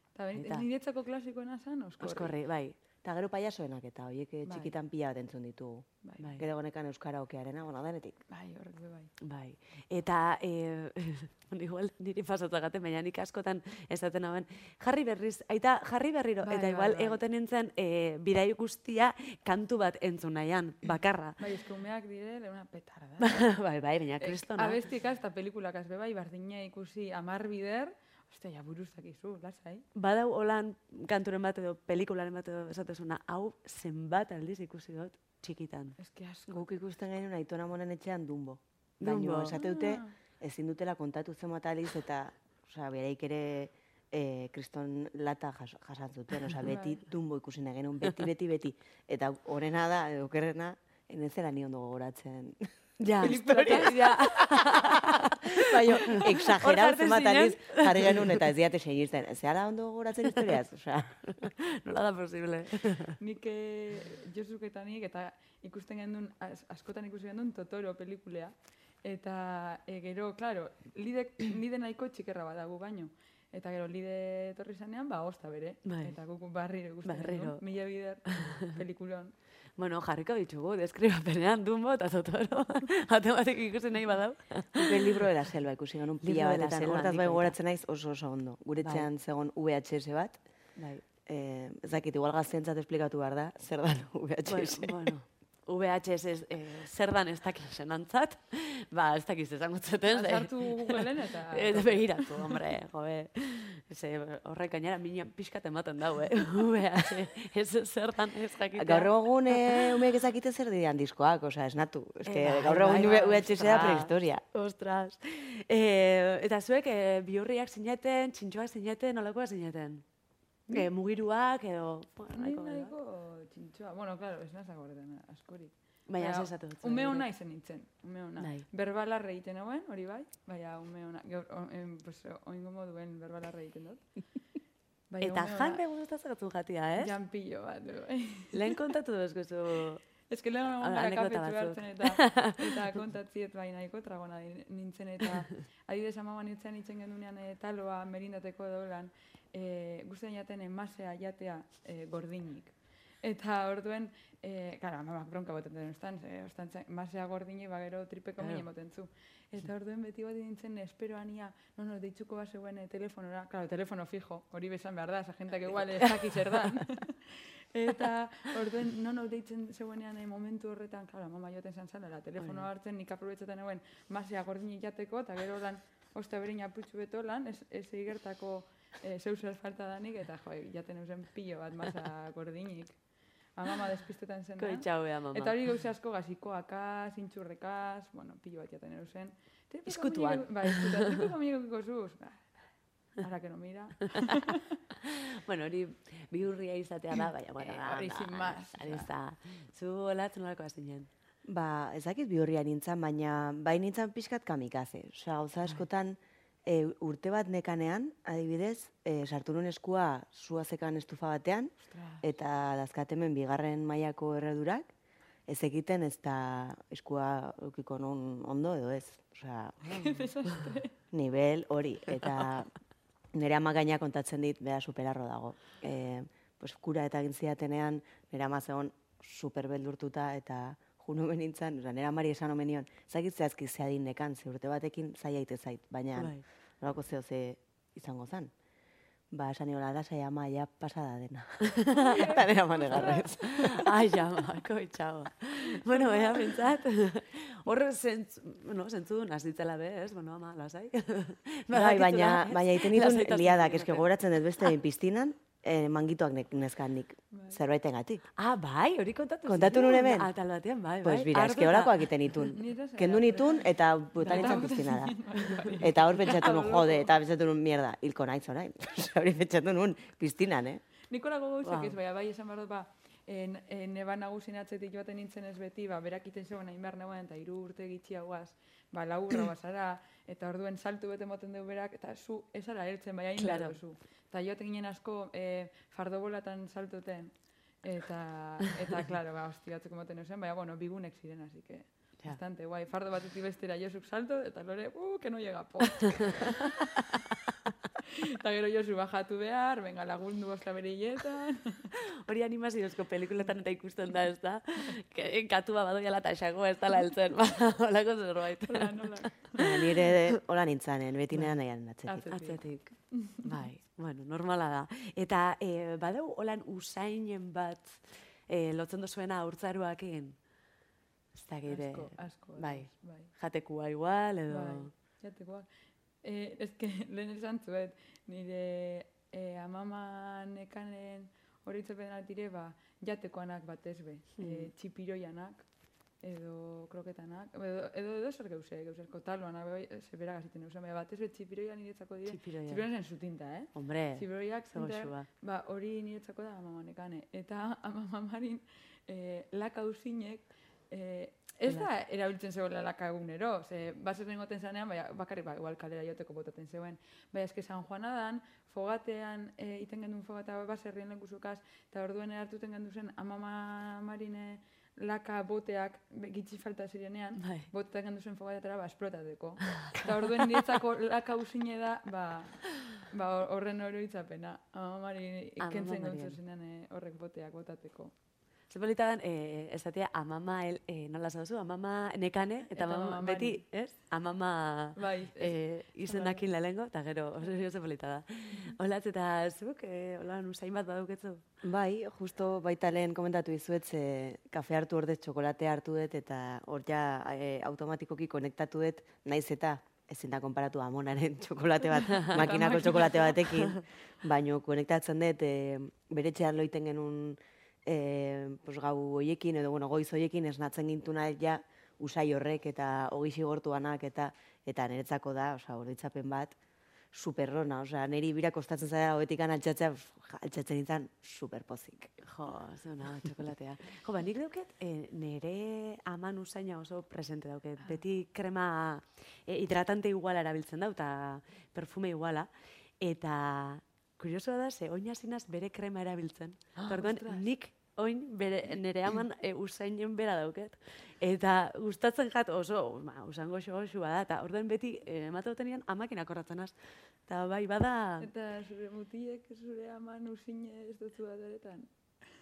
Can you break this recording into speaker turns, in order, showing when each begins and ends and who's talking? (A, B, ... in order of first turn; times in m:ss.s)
0:00.1-0:02.3 A
0:00.3-0:00.6 B
0:02.0-0:02.8 B
0:03.0-0:05.9 C
0:04.4-0:04.7 A
0:06.4-0:08.2 C
0:08.3-0:09.1 A
0:09.2-0:21.4 B
0:16.4-0:17.2 A
0:21.4-0:23.5 A
0:23.2-0:24.8 B
0:24.2-0:29.8 A
0:29.9-0:36.0 B
0:36.0-0:36.6 A
0:36.5-1:01.5 C
0:39.0-0:39.6 B
0:39.5-0:40.1 A
0:46.6-0:47.0 A
0:53.0-0:58.4 B
0:53.2-0:54.4 A
1:01.3-1:03.2 B
1:03.2-1:19.3 A
1:15.8-1:16.2 B
1:17.0-1:17.6 B
1:19.8-1:25.2 B
1:24.7-1:30.4 C
1:26.2-1:27.5 B
1:28.8-1:29.1 B
1:30.8-1:31.0 B
1:31.2-1:35.1 C
1:34.4-1:50.0 B
1:40.1-1:42.6 A
1:48.8-1:54.4 C
1:52.2-2:00.0 B
2:00.7-2:02.9 B
2:02.3-2:14.2 A
2:06.1-2:07.3 B
2:08.4-2:08.6 B
2:15.1-2:15.8 A
2:15.2-2:17.1 B
2:17.0-2:18.8 A
2:18.5-2:20.0 B
2:20.3-3:03.0 A
2:20.8-2:22.6 B
2:38.4-2:38.6 B
2:45.7-2:46.5 B
2:52.4-2:52.7 B
3:03.5-3:12.5 A
3:04.6-3:05.5 B
3:09.9-3:11.1 B
3:13.2-3:14.8 A
3:15.0-3:21.1 B
3:17.6-3:19.1 A
3:21.5-3:34.9 C
3:31.9-3:32.2 A
3:35.5-3:40.0 C
3:39.9-3:40.9 A
3:41.1-3:42.7 C
3:43.3-3:58.5 C
3:56.1-3:56.4 B
3:59.3-4:03.8 C
4:01.9-4:03.4 A
4:02.9-4:14.1 B
4:05.9-4:06.5 A
4:11.7-4:18.2 C
4:17.3-4:17.6 A
4:18.4-4:22.2 B
4:19.4-4:20.3 C
4:21.0-4:25.2 C
4:22.5-4:27.2 A
4:25.4-4:25.8 B
4:25.8-4:30.8 C
4:31.1-4:56.9 A
4:31.6-4:32.0 B
4:43.4-4:43.8 B
4:58.3-5:01.9 A
5:02.2-5:09.2 B
5:08.6-5:09.9 A
5:09.6-5:12.3 C
5:12.1-5:13.4 A
5:12.3-5:20.4 B
5:21.3-5:24.9 B
5:21.7-5:23.3 A
5:24.5-5:25.7 A
5:26.2-5:35.7 A
5:34.4-5:34.7 B
5:36.2-6:18.1 A
5:42.2-5:42.8 B
5:43.7-5:45.2 B
6:07.4-6:07.7 B
6:15.6-6:16.4 B
6:18.7-6:31.4 B
6:22.8-6:23.6 A
6:25.0-6:26.4 A
6:31.6-6:56.6 C
6:42.2-6:43.6 A
6:57.1-7:02.2 C
7:02.2-7:12.5 B
7:13.0-7:26.7 B
7:16.9-7:17.5 A
7:27.3-7:28.3 B
7:28.2-7:31.9 A